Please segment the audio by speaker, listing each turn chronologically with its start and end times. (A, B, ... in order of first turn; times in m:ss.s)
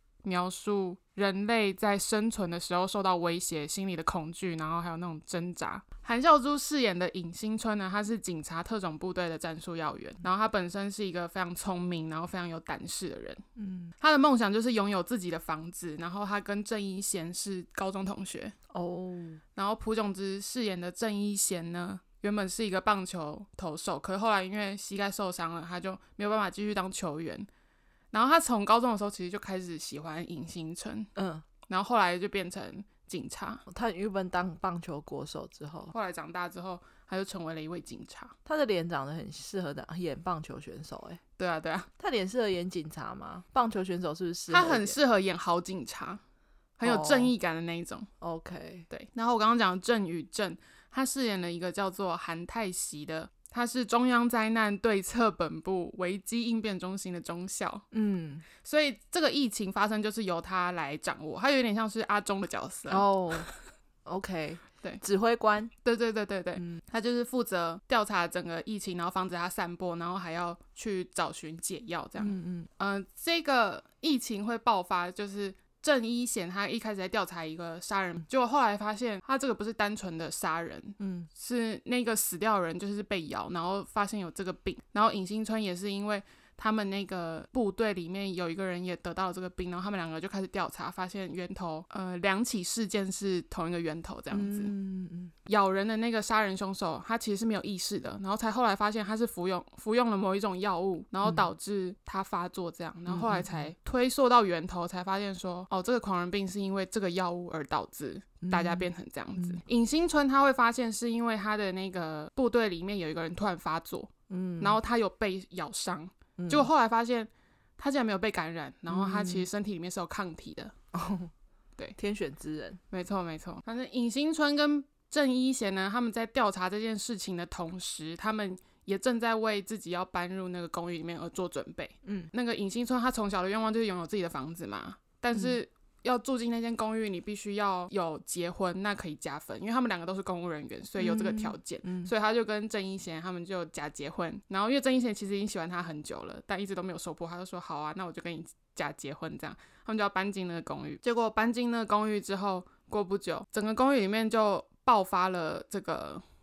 0:00.2-0:13.4 A
0:13.6-0:13.9 B
0:14.0-0:18.6 A
0:18.7-0:19.4 B
0:19.6-0:27.5 A
0:28.1-0:31.1 A
0:31.2-0:31.4 B
0:31.7-0:33.6 A
0:33.7-0:35.9 B
0:35.9-0:38.3 A
0:38.5-0:41.2 B
0:41.4-0:41.9 A
0:42.0-0:45.0 B
0:44.5-0:46.2 A
0:46.8-0:48.1 A
0:46.8-0:47.3 B
0:48.2-0:48.9 B
0:48.9-0:57.8 A
0:57.9-0:58.4 B
0:58.6-1:03.5 A
1:02.9-1:03.5 B
1:04.1-1:05.7 B
1:05.8-1:34.7 A
1:12.2-1:12.7 B
1:21.0-1:21.3 B
1:34.3-1:35.3 B
1:35.5-2:00.7 A
1:43.1-1:43.7 B
1:48.4-1:49.6 B
1:54.3-1:54.8 B
1:56.4-1:56.7 B
1:58.9-1:59.5 B
2:00.9-2:01.3 B
2:02.0-2:02.8 B
2:02.9-2:36.2 A
2:12.0-2:12.3 B
2:21.0-2:22.1 B